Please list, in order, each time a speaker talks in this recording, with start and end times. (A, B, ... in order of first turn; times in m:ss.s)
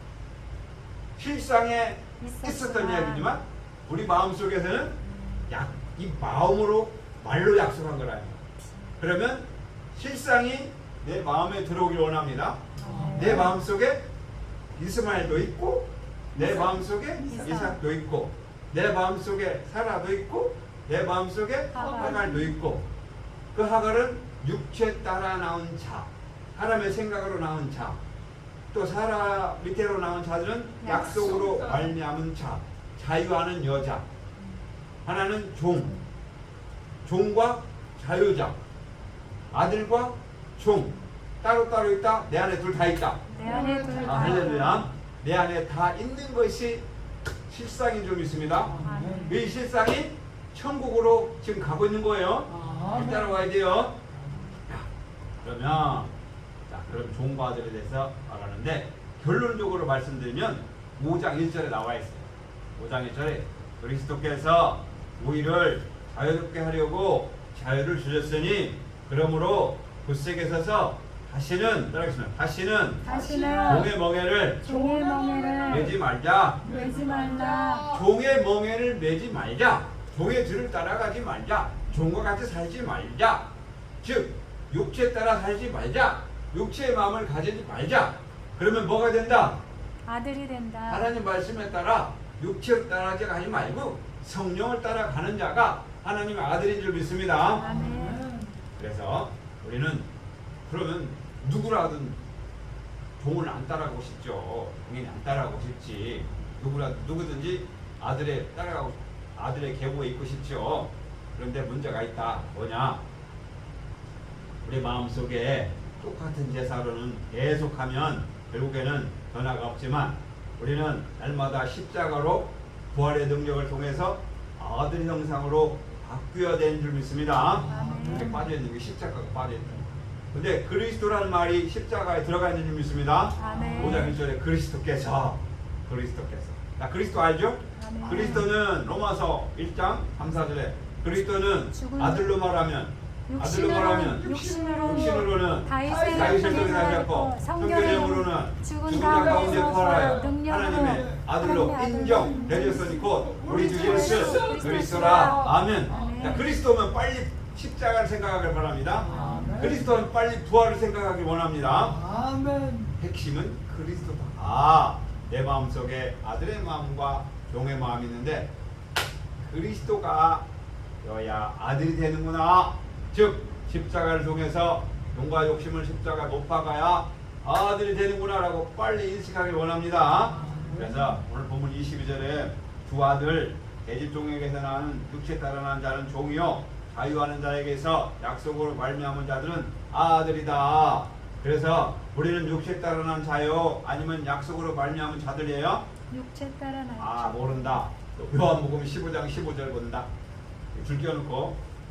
0:01.2-0:08.4 A
0:02.2-0:03.3 B
0:05.0-0:05.5 B
0:09.0-0:14.0 A
0:12.8-0:13.6 B
0:12.8-0:13.6 C
0:14.8-0:22.9 A
0:17.2-0:17.8 B
0:21.7-0:22.5 B
0:21.8-0:22.4 C
0:23.5-0:28.0 A
0:28.7-0:34.0 A
0:30.8-0:31.2 B
0:30.9-0:31.9 C
0:35.0-0:35.9 A
0:37.0-0:38.6 A
0:39.5-0:43.2 A
0:43.3-0:44.8 B
0:43.4-0:44.9 C
0:44.0-0:46.8 A
0:47.5-0:54.0 A
0:48.7-0:49.3 C
0:48.7-0:49.4 B
0:52.5-0:53.4 C
0:55.4-0:56.1 A
0:56.7-1:14.6 A
1:13.0-1:13.9 B
1:13.0-1:13.9 C
1:14.6-1:15.9 B
1:14.6-1:16.0 C
1:15.7-1:16.6 A
1:16.6-1:17.9 B
1:16.6-1:18.1 C
1:17.9-1:23.5 A
1:24.0-1:29.6 A
1:30.0-1:31.1 B
1:30.9-1:37.7 A
1:37.6-1:38.3 B
1:37.6-1:38.5 C
1:38.8-1:40.1 A
1:40.7-1:42.2 A
1:43.2-1:53.0 A
1:54.6-2:42.0 A
2:07.6-2:08.5 C
2:07.7-2:08.4 B
2:13.4-2:14.1 B
2:13.4-2:14.2 C
2:17.8-2:18.5 B
2:21.7-2:22.3 B
2:23.3-2:36.5 B
2:23.7-2:25.3 C
2:25.8-2:27.0 C
2:28.9-2:31.2 C
2:32.4-2:36.4 C
2:39.0-2:39.9 C
2:39.1-2:39.6 B
2:41.8-2:43.0 C
2:43.0-2:48.5 A
2:49.4-2:50.4 A
2:51.0-3:15.9 A
3:00.3-3:01.2 C
3:16.1-3:17.8 B
3:17.0-3:20.1 A
3:20.7-3:21.6 A